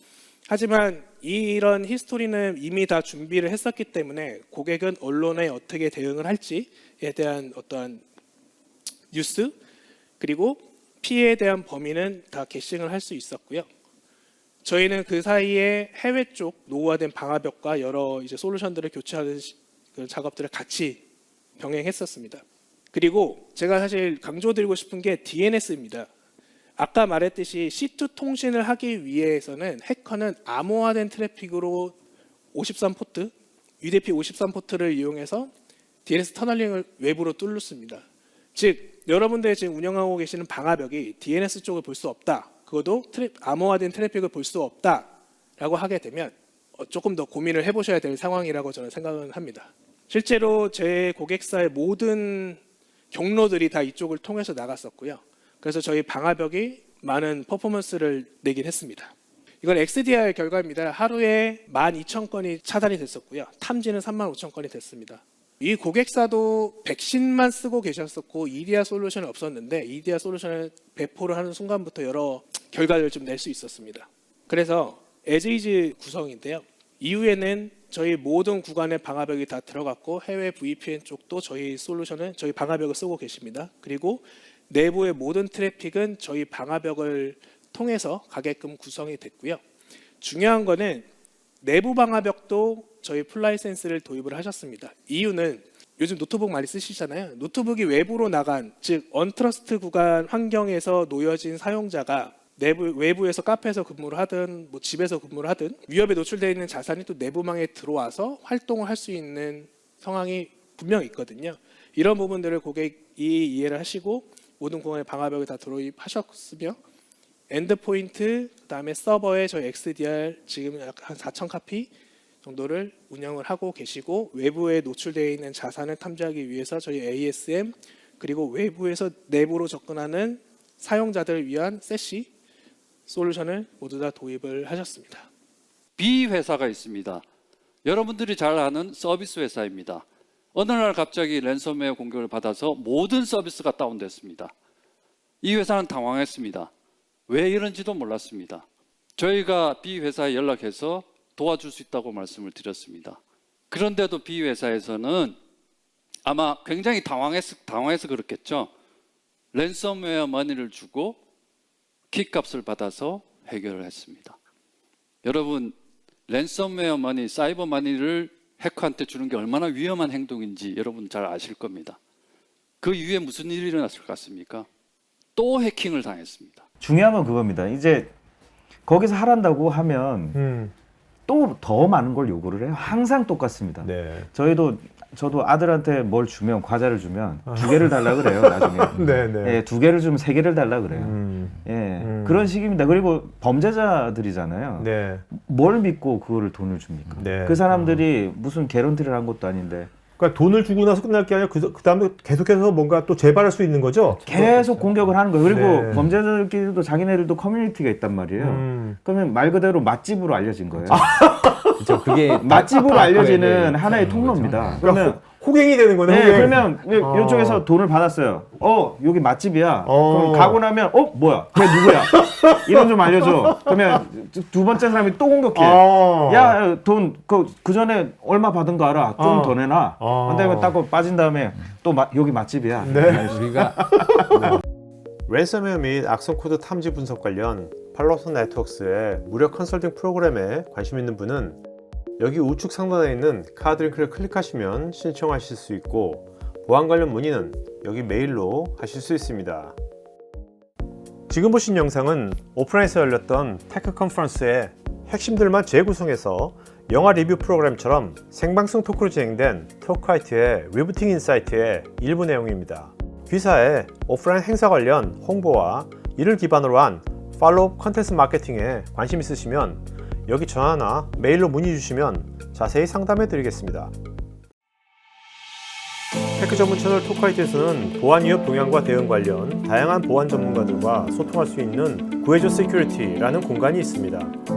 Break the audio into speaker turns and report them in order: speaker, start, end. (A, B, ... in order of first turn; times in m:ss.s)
0:00.5-0:08.0 A
0:09.1-0:09.5 A
0:10.2-0:13.7 A
0:14.6-0:21.0 A
0:21.6-0:26.1 A
0:26.8-0:31.9 A
0:32.5-0:35.5 A
0:36.0-0:38.0 A
0:38.5-0:52.6 A
0:53.1-1:29.6 A
1:30.2-1:31.0 A
1:31.6-1:56.8 A
1:57.5-2:01.9 A
2:02.4-2:12.3 A
2:13.1-2:15.3 A
2:16.0-2:17.2 B
2:17.8-2:24.5 B
2:25.4-2:26.7 B
2:27.3-2:28.6 B
2:29.2-2:33.2 B
2:33.7-2:35.4 B
2:36.2-2:38.7 B
2:39.5-2:41.2 B
2:42.1-2:44.4 B
2:45.2-2:45.7 B
2:46.3-2:52.0 B
2:52.8-2:54.7 B
2:55.4-2:56.6 B
2:56.8-2:58.1 C
2:58.8-3:00.4 C
3:00.3-3:00.7 D
3:01.3-3:19.9 C
3:03.8-3:04.3 D
3:07.4-3:09.6 D
3:10.9-3:12.5 D
3:14.8-3:15.2 D
3:17.2-3:18.0 D
3:20.2-3:24.6 D
3:24.2-3:31.1 C
3:25.4-3:26.1 D
3:28.4-3:29.0 D
3:30.9-3:32.0 D
3:31.8-3:34.6 E
3:32.4-3:35.3 C
3:34.8-3:37.6 D
3:36.0-3:53.9 C
3:39.8-3:40.6 D
3:41.7-3:44.0 D
3:45.5-3:46.6 D
3:49.2-3:50.8 D
3:52.8-3:54.6 D
3:53.4-3:53.6 E
3:55.3-4:01.6 D
4:02.2-4:09.8 D
4:11.3-4:33.9 D
4:36.4-4:44.4 D